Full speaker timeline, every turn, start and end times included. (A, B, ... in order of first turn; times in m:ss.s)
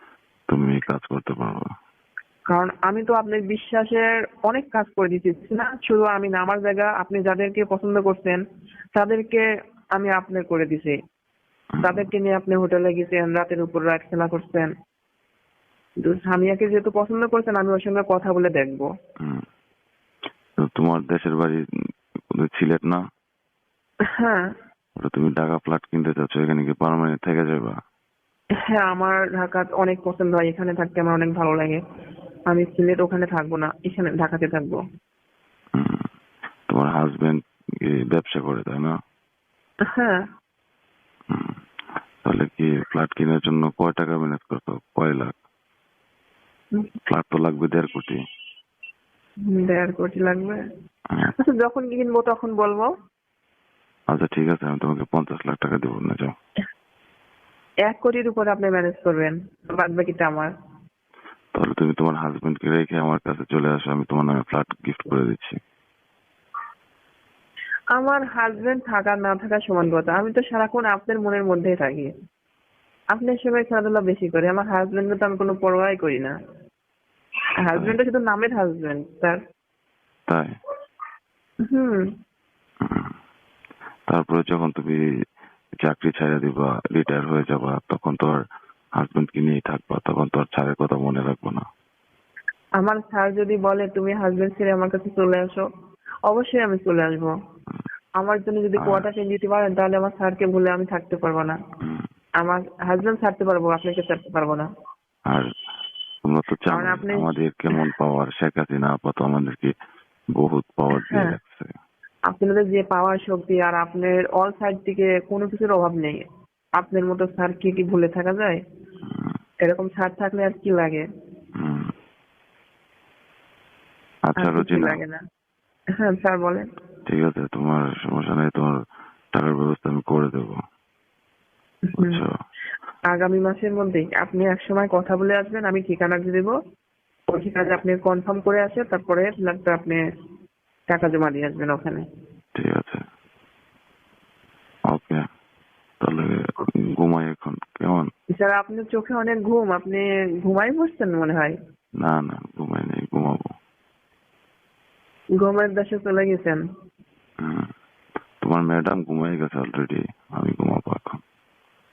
0:00.5-0:01.6 A
0:02.5-0:08.4 B
0:08.9-0:09.4 B
0:10.0-0:11.0 B
0:11.7-0:12.1 A
0:11.8-0:14.7 B
0:16.0-0:18.9 B
0:20.6-0:21.6 A
0:22.3-0:23.0 A
0:24.2-0:24.5 B
0:25.0-0:27.7 A
0:28.7-0:31.8 B
0:32.5-0:34.8 B
0:35.8-0:36.1 A
0:36.7-0:38.9 A
0:39.9-0:40.2 B
0:41.3-0:41.5 A
0:42.2-0:45.3 A
0:47.1-0:48.2 A
0:49.5-0:50.6 B
0:51.4-0:52.9 B
0:54.1-0:56.3 A
0:57.8-1:00.5 B
1:01.5-1:05.6 A
1:07.9-1:12.1 B
1:13.1-1:16.3 B
1:17.6-1:19.4 B
1:17.7-1:18.0 A
1:20.3-1:20.5 A
1:21.7-1:22.0 B
1:22.8-1:23.1 A
1:24.1-1:25.0 A
1:25.8-1:28.4 A
1:29.0-1:31.6 A
1:32.8-1:35.6 B
1:36.3-1:37.3 B
1:38.2-1:41.6 B
1:38.8-1:39.1 A
1:42.4-1:44.7 B
1:46.2-1:49.7 A
1:46.7-1:47.3 B
1:50.3-1:51.7 A
1:50.9-1:51.3 B
1:52.3-1:56.2 B
1:56.8-1:58.6 B
1:59.1-1:59.4 A
1:59.6-2:01.0 B
2:01.6-2:01.9 A
2:04.2-2:05.0 A
2:04.4-2:05.2 B
2:06.0-2:06.6 B
2:07.0-2:08.7 A
2:09.3-2:10.6 A
2:11.9-2:12.2 B
2:12.0-2:12.3 A
2:13.1-2:16.5 B
2:17.3-2:20.0 B
2:20.9-2:22.0 B
2:22.5-2:23.0 A
2:24.9-2:25.2 A
2:26.0-2:28.1 A
2:28.4-2:31.6 B
2:32.0-2:33.5 A
2:35.4-2:36.6 B
2:37.4-2:37.7 A
2:38.4-2:41.2 A